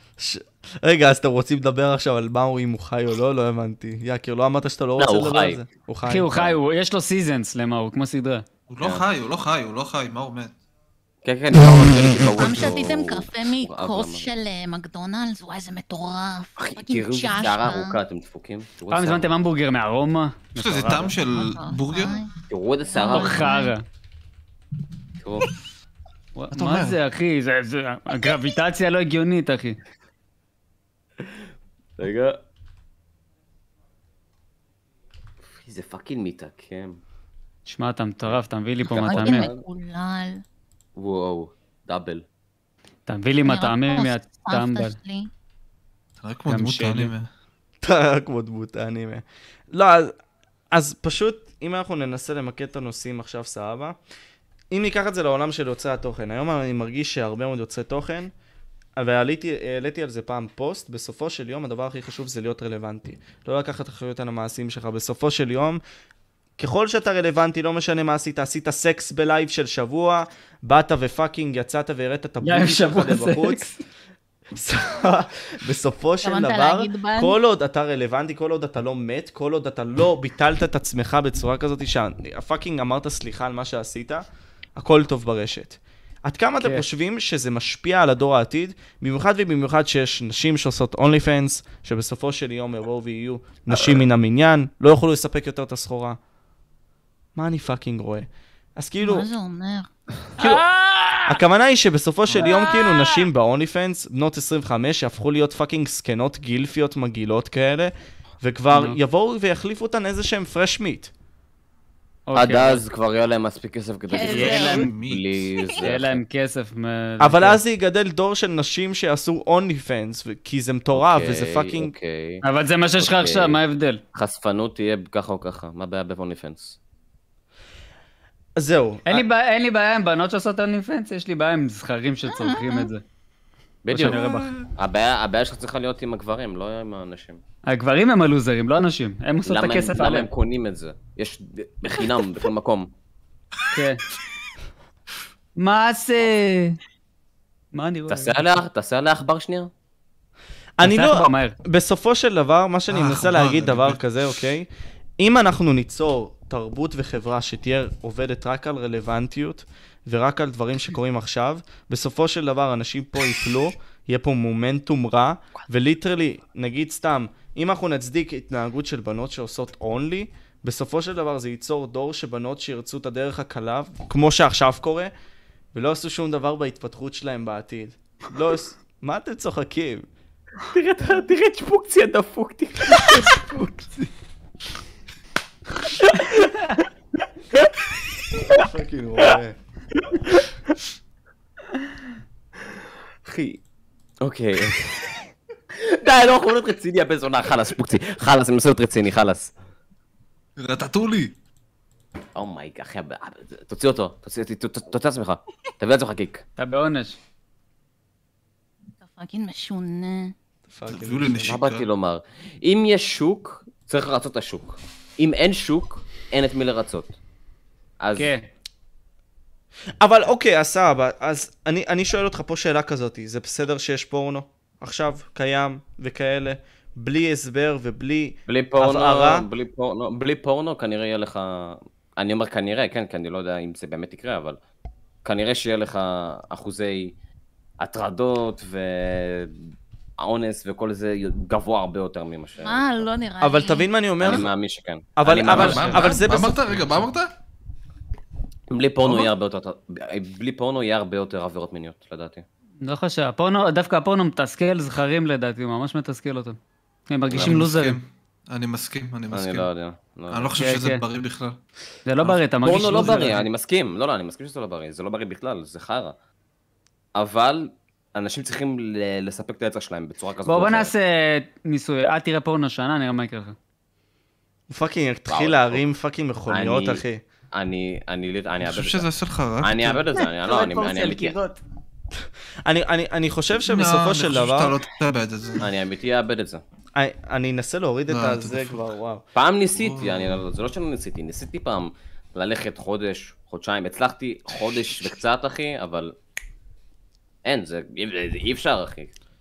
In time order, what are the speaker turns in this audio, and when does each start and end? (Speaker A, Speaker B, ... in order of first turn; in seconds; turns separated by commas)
Speaker A: 0.2-6.5, Speaker B: 5.0-5.6, Speaker C: 6.0-8.4, Speaker D: 8.7-10.6, Speaker B: 8.8-9.1, Speaker B: 11.2-14.3, Speaker E: 12.4-18.0, Speaker B: 16.6-19.3, Speaker C: 18.9-21.2, Speaker D: 20.6-22.2, Speaker E: 21.3-22.3, Speaker B: 22.5-23.5, Speaker E: 22.9-23.7, Speaker C: 23.0-23.8, Speaker B: 25.2-25.5, Speaker C: 26.3-29.8, Speaker D: 26.5-27.0, Speaker B: 32.0-32.4, Speaker B: 35.5-37.0, Speaker C: 37.6-39.5, Speaker B: 38.2-39.6, Speaker E: 38.9-40.4, Speaker B: 41.0-42.2, Speaker C: 43.1-45.0, Speaker E: 43.5-45.3, Speaker D: 46.2-47.3, Speaker C: 46.5-47.1, Speaker A: 47.8-50.1, Speaker A: 50.7-53.9, Speaker A: 54.7-58.3, Speaker A: 59.0-65.8, Speaker A: 66.6-73.6, Speaker C: 72.4-73.8, Speaker A: 74.5-84.2, Speaker E: 76.2-77.3, Speaker A: 84.8-96.2, Speaker C: 86.6-86.8, Speaker A: 97.3-99.3, Speaker E: 99.0-99.9, Speaker C: 100.4-101.4, Speaker A: 101.3-111.1, Speaker C: 102.3-103.1, Speaker C: 108.7-109.0, Speaker C: 112.3-112.8, Speaker B: 112.3-116.2, Speaker E: 114.1-114.9, Speaker C: 114.2-114.9, Speaker D: 114.3-115.4, Speaker E: 115.6-115.8, Speaker C: 115.8-117.6, Speaker A: 117.2-121.9, Speaker B: 120.9-122.4, Speaker C: 122.4-124.0, Speaker B: 123.0-123.6, Speaker B: 124.1-126.8, Speaker A: 128.6-129.2, Speaker C: 129.1-133.0, Speaker E: 132.3-132.9, Speaker B: 133.8-137.4, Speaker C: 133.9-134.5, Speaker D: 134.1-134.6, Speaker C: 137.7-140.3, Speaker B: 139.4-142.9, Speaker C: 143.7-144.0, Speaker C: 145.6-146.8, Speaker C: 147.7-148.4, Speaker B: 148.1-149.7, Speaker A: 150.8-154.7, Speaker C: 150.8-151.6, Speaker D: 152.9-154.0, Speaker A: 155.2-175.1, Speaker A: 175.7-180.1, Speaker B: 180.7-183.4, Speaker C: 186.1-186.8, Speaker A: 188.5-189.6, Speaker B: 193.2-193.6, Speaker B: 194.2-195.2, Speaker B: 195.7-199.5, Speaker D: 200.6-201.3, Speaker B: 202.3-206.4, Speaker C: 206.6-207.2, Speaker E: 209.0-210.3, Speaker A: 210.7-211.5, Speaker D: 210.9-211.8, Speaker B: 211.4-217.2, Speaker B: 218.0-218.3, Speaker C: 218.2-218.5, Speaker A: 220.0-229.4, Speaker B: 228.5-234.6, Speaker B: 235.2-237.1, Speaker B: 237.8-239.6, Speaker B: 240.2-243.1, Speaker E: 242.6-243.9, Speaker A: 243.4-244.5, Speaker B: 244.2-246.2, Speaker A: 245.2-247.0, Speaker D: 245.5-247.3, Speaker B: 248.7-252.4, Speaker C: 252.8-256.6, Speaker C: 257.1-258.0, Speaker B: 257.3-257.6, Speaker D: 257.3-259.7, Speaker B: 259.3-260.6, Speaker D: 260.3-261.6, Speaker C: 260.6-261.0, Speaker C: 262.1-263.4, Speaker D: 262.2-263.4, Speaker B: 262.6-266.1, Speaker B: 267.1-270.9, Speaker C: 270.4-273.6, Speaker A: 274.7-277.2, Speaker B: 275.3-275.8, Speaker B: 276.5-277.0, Speaker B: 277.5-279.1, Speaker D: 278.6-280.1, Speaker B: 279.6-281.4, Speaker C: 280.1-281.6, Speaker A: 282.6-284.8, Speaker D: 283.6-285.7, Speaker B: 285.6-286.6, Speaker A: 286.9-289.2, Speaker D: 288.1-288.8, Speaker B: 289.3-296.1, Speaker D: 289.7-290.4, Speaker B: 297.4-299.1